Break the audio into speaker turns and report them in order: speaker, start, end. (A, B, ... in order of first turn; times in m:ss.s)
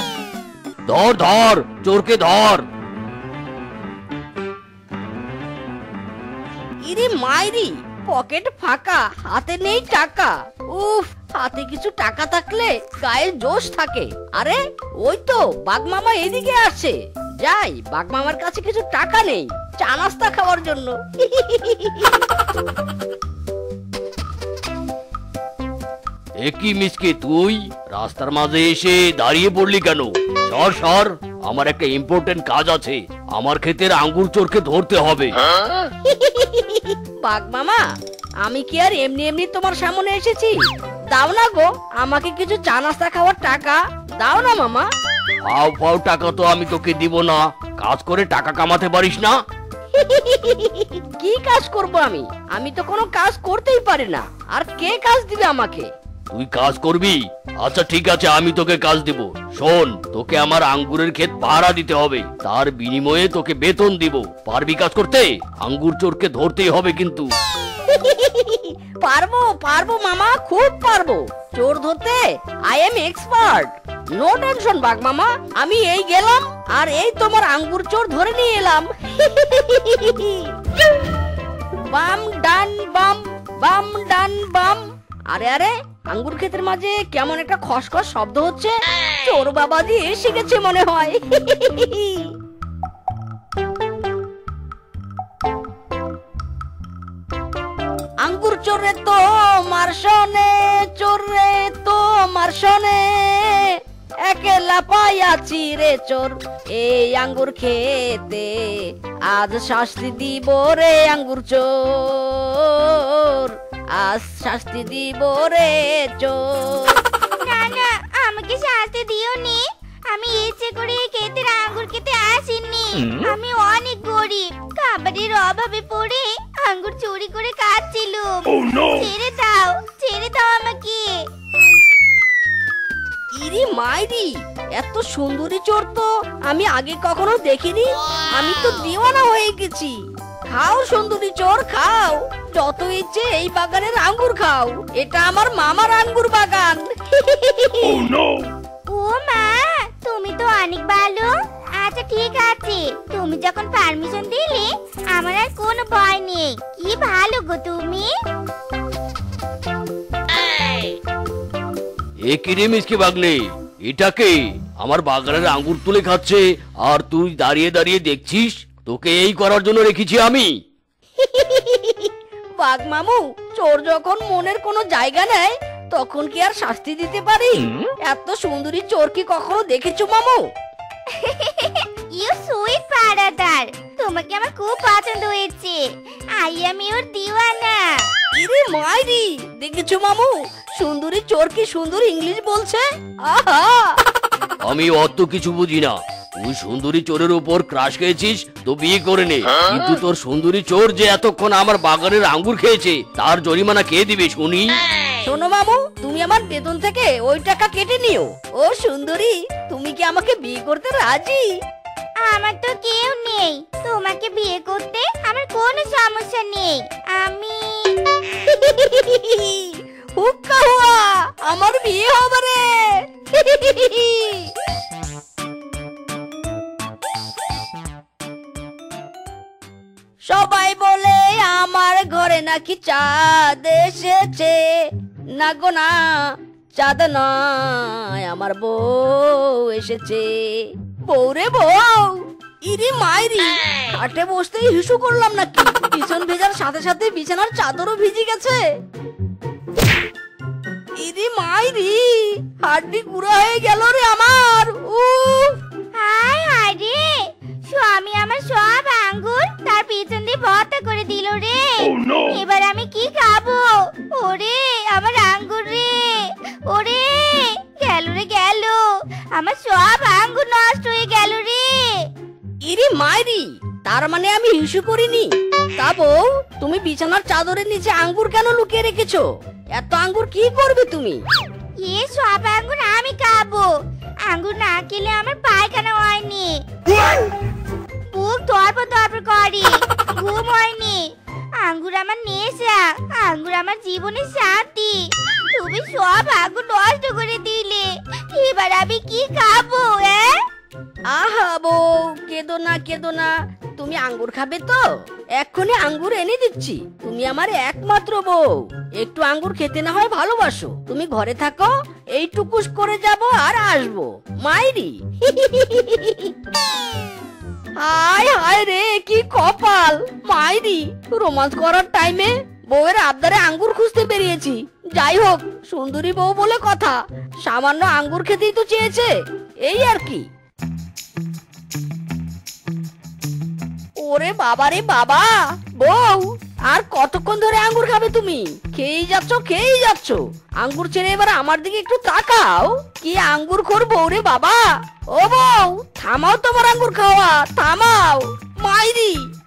0:00.9-0:02.7 A
0:06.9-0:22.1 B
0:26.4-0:35.4 A
0:35.8-0:37.8 B
0:38.4-0:40.6 B
0:41.1-0:44.9 B
0:45.5-0:49.4 A
0:49.9-0:55.9 B
0:56.3-1:07.3 A
1:07.9-1:20.5 B
1:21.9-1:32.3 B
1:38.2-1:57.0 B
1:57.4-2:11.2 C
2:13.4-2:20.0 B
2:20.5-2:28.1 B
2:28.9-2:38.1 C
2:42.3-2:50.5 A
2:51.2-3:00.4 B
3:01.1-3:05.8 C
3:06.4-3:08.0 C
3:08.4-3:14.0 B
3:14.6-3:24.8 A
3:25.2-3:31.5 B
3:32.2-3:38.0 C
3:38.5-3:44.5 B
3:50.3-4:08.6 B
4:11.0-4:15.6 B
4:16.0-4:28.8 C
4:29.4-4:32.1 C
4:32.6-4:41.2 B
4:41.8-4:43.7 C
4:44.3-4:46.6 C
4:48.1-5:00.4 C
5:01.1-5:16.3 B
5:17.8-5:29.1 B
5:29.6-5:30.3 B
5:34.0-5:49.3 B